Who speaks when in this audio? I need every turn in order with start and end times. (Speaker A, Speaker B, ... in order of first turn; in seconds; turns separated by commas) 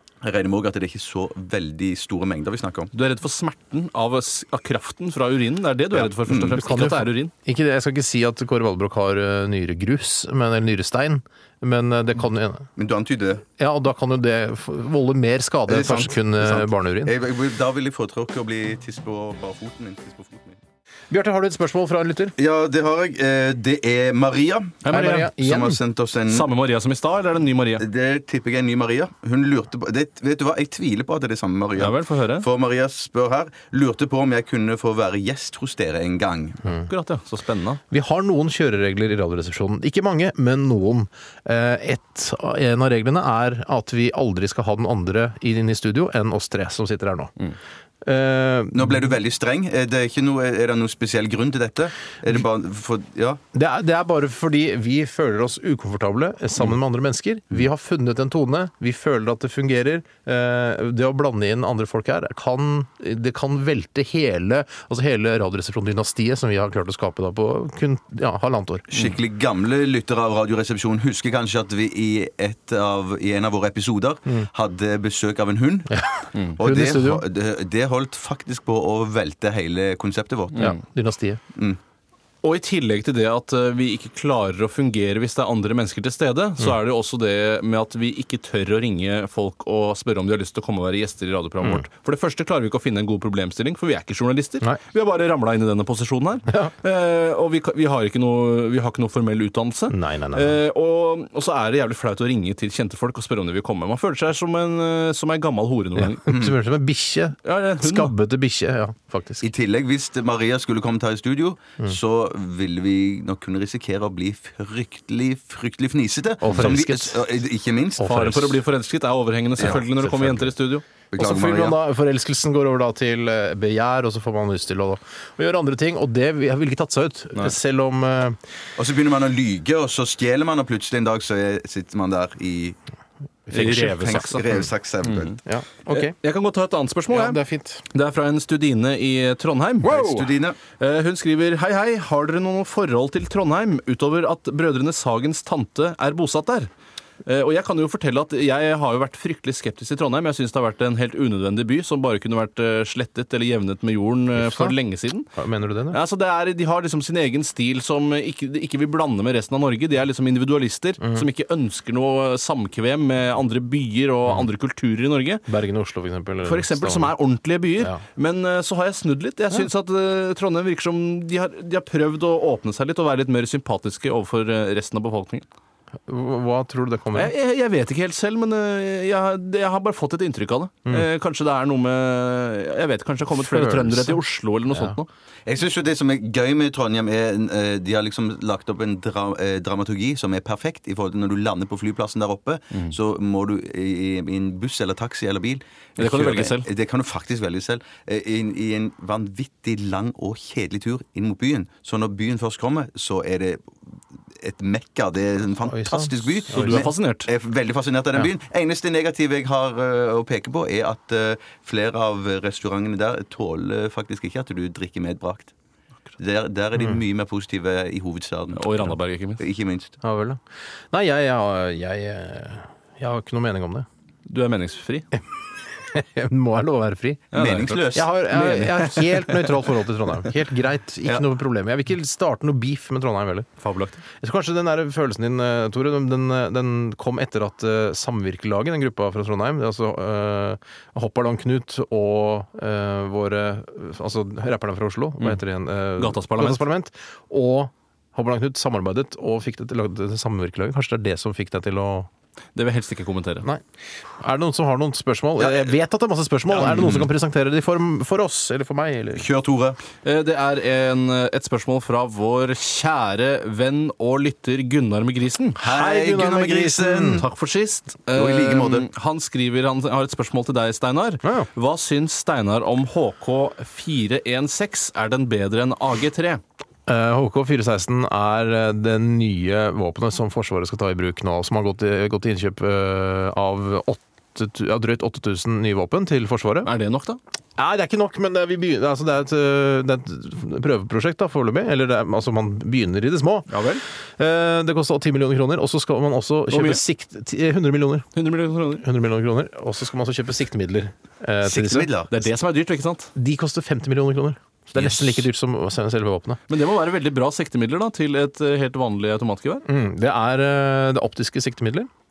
Speaker A: 0.2-2.9, Speaker B: 2.9-7.3, Speaker A: 6.2-6.6, Speaker C: 6.6-12.7, Speaker A: 12.8-13.4, Speaker C: 13.6-17.1, Speaker A: 15.7-20.6, Speaker C: 21.1-22.3, Speaker A: 22.4-24.8, Speaker B: 24.8-25.3, Speaker C: 24.9-25.8, Speaker A: 25.4-26.5, Speaker B: 26.3-27.8, Speaker A: 27.8-36.7, Speaker B: 31.8-32.4, Speaker B: 36.9-37.8, Speaker C: 37.9-47.3, Speaker C: 48.0-49.1, Speaker A: 48.7-53.4, Speaker C: 53.5-68.9, Speaker A: 68.9-75.9, Speaker C: 75.9-77.2, Speaker A: 76.6-80.7, Speaker C: 80.6-81.4, Speaker B: 82.4-106.2, Speaker C: 99.9-100.6, Speaker C: 105.9-109.5, Speaker A: 106.3-106.5, Speaker B: 107.4-108.1, Speaker A: 109.4-118.2, Speaker C: 116.4-117.2, Speaker C: 118.0-118.5, Speaker B: 118.0-120.8, Speaker A: 119.6-119.8, Speaker C: 119.6-120.5, Speaker A: 121.1-121.8, Speaker C: 121.2-128.4, Speaker A: 128.8-132.8, Speaker C: 133.5-134.2, Speaker B: 133.5-135.4, Speaker A: 133.5-135.4, Speaker C: 135.4-136.1, Speaker B: 135.9-137.4, Speaker C: 137.1-137.8, Speaker B: 137.9-146.7, Speaker A: 139.8-140.6, Speaker B: 147.2-155.3, Speaker C: 154.3-154.8, Speaker C: 155.3-156.0, Speaker B: 155.9-165.4, Speaker C: 165.5-167.1, Speaker B: 166.4-175.4, Speaker C: 176.1-177.3, Speaker B: 177.1-185.1, Speaker C: 183.3-184.2, Speaker C: 184.7-185.0, Speaker A: 185.4-203.6, Speaker B: 196.0-196.7, Speaker A: 204.4-215.5, Speaker C: 205.6-206.8, Speaker B: 206.5-207.3, Speaker A: 216.2-219.9, Speaker B: 218.5-219.4, Speaker C: 220.0-220.4, Speaker C: 220.9-223.8, Speaker B: 224.3-225.1, Speaker C: 225.8-227.3, Speaker B: 227.3-229.6, Speaker A: 227.3-228.1, Speaker C: 227.9-233.5, Speaker B: 233.6-234.0, Speaker C: 234.2-252.1, Speaker B: 246.0-246.6, Speaker B: 252.5-253.4, Speaker C: 254.2-259.3, Speaker A: 255.4-255.7, Speaker A: 256.5-257.1, Speaker A: 259.1-259.8, Speaker B: 260.0-265.6, Speaker A: 265.6-267.3, Speaker C: 265.6-267.3, Speaker B: 267.2-276.4, Speaker A: 268.1-268.9, Speaker C: 276.9-286.7, Speaker B: 286.6-287.2, Speaker C: 287.6-293.5, Speaker B: 293.5-293.8, Speaker C: 294.2-298.1, Speaker B: 296.5-296.8, Speaker B: 298.1-298.8, Speaker C: 298.7-301.9, Speaker A: 301.4-302.1, Speaker B: 302.1-303.1, Speaker C: 303.1-306.4, Speaker A: 304.8-305.1, Speaker B: 306.5-309.6, Speaker C: 309.6-311.9